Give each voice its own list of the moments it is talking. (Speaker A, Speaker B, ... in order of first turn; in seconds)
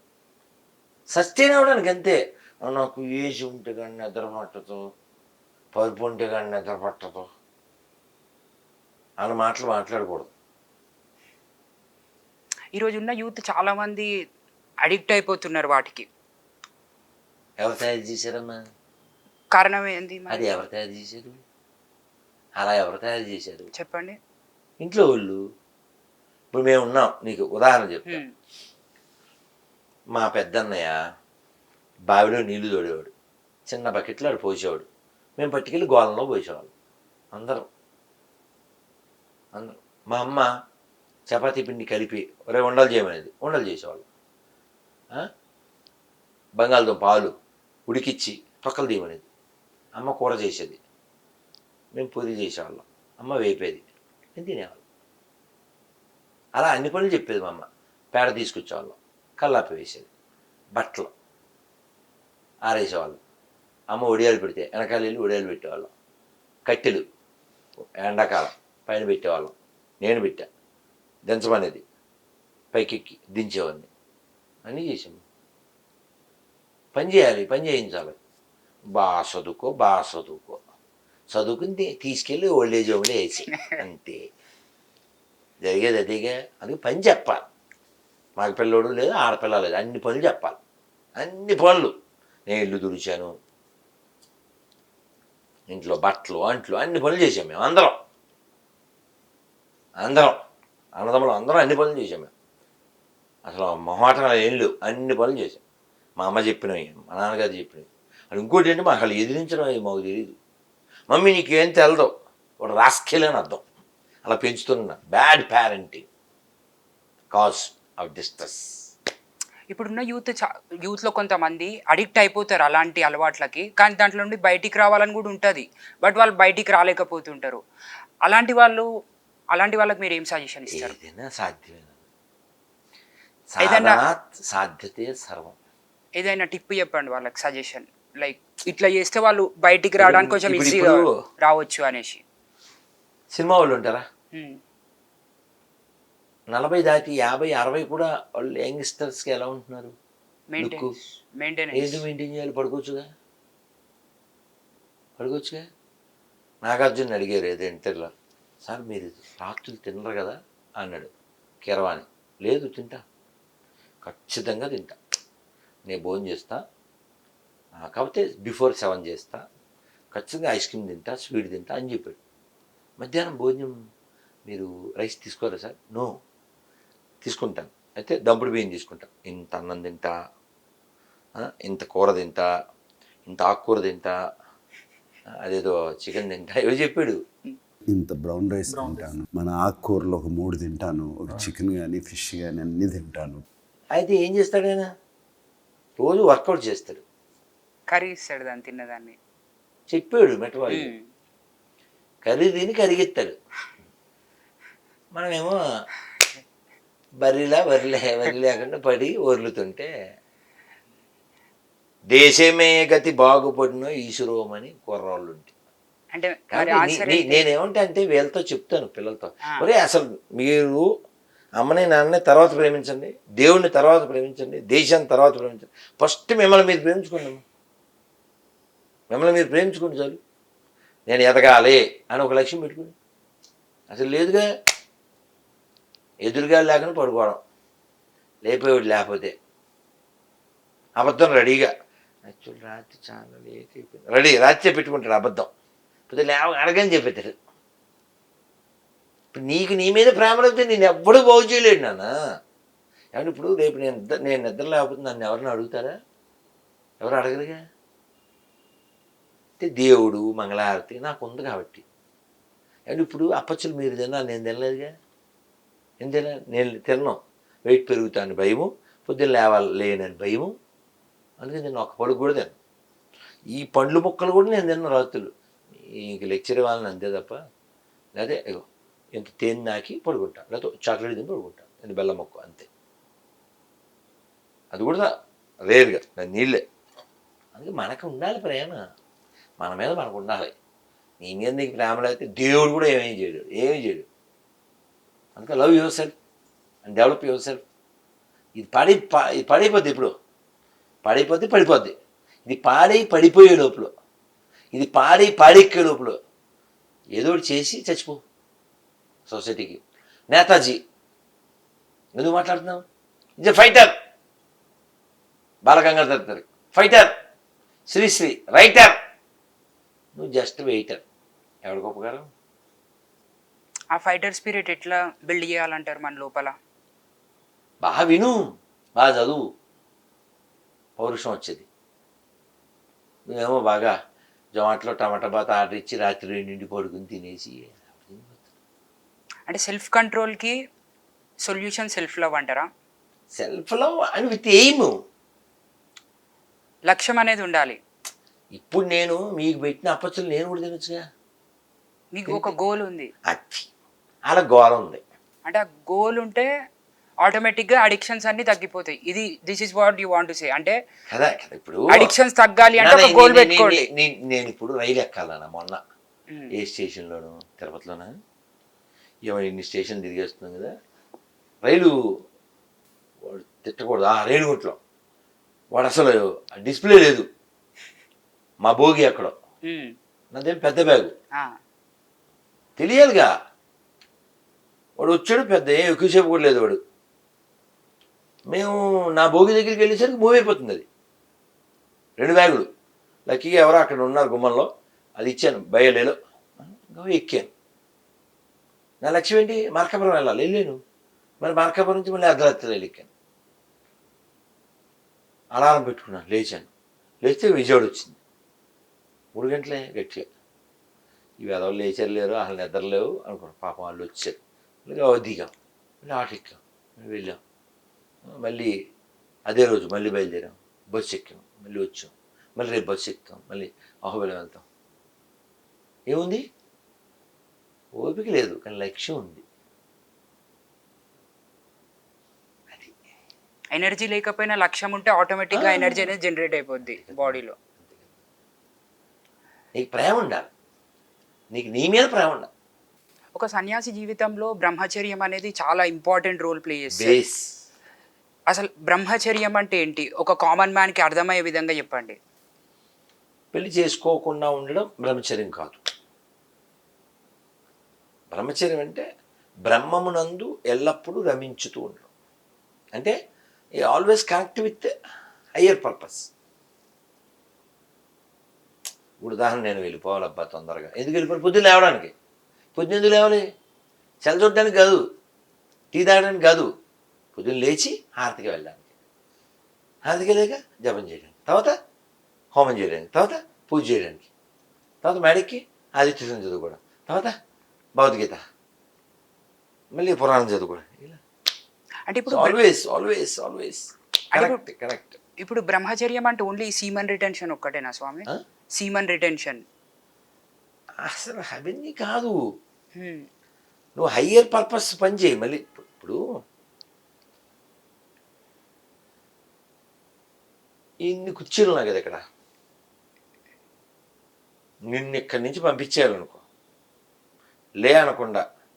Speaker A: 1.1-4.8, 5.7-7.3, 9.2-10.3, 17.6-18.6, 20.3-21.4, 22.6-23.7, 24.8-25.4, 26.5-28.2, 30.1-31.0, 32.1-33.1, 33.7-36.7, 37.3-37.6, 39.5-40.5, 41.3-44.0, 46.6-47.4, 47.9-49.2, 50.0-50.8, 51.9-54.8, 56.6-60.1, 60.8-61.1, 62.7-63.2, 63.9-65.9, 66.7-67.0, 67.8-70.5, 71.2-71.8, 72.7-73.9, 74.7-75.2, 76.9-78.2, 79.0-80.6, 81.3-84.2, 85.6-87.4, 88.4-90.6, 91.2-91.9, 92.5-93.3, 95.7-98.0, 100.0-100.4, 101.0-102.3, 103.5-105.6, 106.2-110.3, 111.1-113.6, 114.2-116.0, 117.3-118.7, 130.7-132.0, 133.5-135.6, 140.0-141.2, 143.3-144.1, 146.5-149.9, 150.6-150.9, 151.7-153.1, 155.2-155.6, 156.6-158.1, 158.6-161.1, 161.6-163.0, 164.0-165.0, 165.9-166.6, 167.8-169.4, 170.1-172.2, 173.0-173.8, 174.5-176.1, 177.2-180.1, 181.4-182.5, 183.3-184.1, 185.4-187.2, 193.9-194.9, 196.0-197.0, 199.9-200.9, 202.2-203.4, 205.2-205.6, 207.2-209.9, 212.1-215.5, 216.5-220.9, 221.6-227.4, 229.1-230.2, 231.1-232.9, 233.9-234.4, 236.2-237.4, 238.5-239.3, 241.0-241.7, 242.3-245.5, 246.1-247.3, 249.3-252.1, 253.1-255.9, 257.0-257.6, 259.6-261.9, 262.9-264.9, 266.0-270.5, 271.4-272.6, 273.6-277.4, 278.2-282.7, 284.7-285.1, 285.7-286.6, 287.6-288.8, 289.6-290.5, 291.2-294.1, 295.4-296.1, 296.8-297.6, 298.6-300.1, 301.1-303.9, 304.7-306.2, 307.2-308.2, 309.3-310.8, 312.2-312.8, 313.4-313.9, 315.7-317.1, 317.9-318.9, 320.1-321.0, 321.6-322.3, 327.8-328.4, 329.0-329.4, 331.0-331.7, 333.3-333.9, 334.6-338.4, 343.4-344.9, 348.6-351.0, 352.3-352.5, 353.3-353.7, 354.3-355.0, 361.1-362.1, 362.8-365.8, 366.6-368.1, 369.3-370.7, 371.7-371.9, 373.2-374.8, 375.7-377.3, 378.6-379.3, 380.3-381.1, 382.8-383.3, 385.0-386.8, 388.5-390.9, 392.2-392.7, 393.3-397.5, 399.0-400.8, 401.4-403.1, 405.6-406.7, 407.2-408.2, 409.4-410.3, 411.4-417.4, 418.3-418.7, 419.5-424.6, 426.1-426.4, 428.0-429.4, 432.7-433.0, 435.6-436.1, 436.9-438.1, 439.8-440.5, 441.5-442.5, 446.9-447.5, 453.5-455.8, 458.3-459.1, 459.7-462.1, 463.8-464.9, 465.6-466.3, 469.2-472.1, 472.8-473.4, 474.2-475.0, 475.9-476.7, 477.4-478.9, 480.1-481.7, 482.5-484.3, 485.0-487.3, 488.0-488.4, 489.9-491.2, 492.3-495.2, 501.0-502.4, 504.0-506.2, 511.1-512.2, 514.9-516.4, 517.8-518.4
Speaker B: 12.7-14.1, 14.8-16.1, 19.6-20.5, 23.8-24.2, 83.5-83.8, 119.7-127.6, 128.3-128.9, 129.5-131.0, 133.6-134.0, 136.2-142.2, 150.5-152.0, 188.7-189.1, 197.9-199.2, 200.7-201.0, 216.1-217.4, 323.9-326.6, 339.5-340.5, 341.5-342.7, 346.9-347.8, 352.1-353.1, 355.5-356.5, 357.2-360.8, 361.9-363.8, 379.7-379.9, 433.8-437.6, 443.4-447.2, 448.5-452.2, 492.1-492.6, 494.4-494.6, 495.4-499.6, 503.0-503.3
Speaker C: 187.9-193.4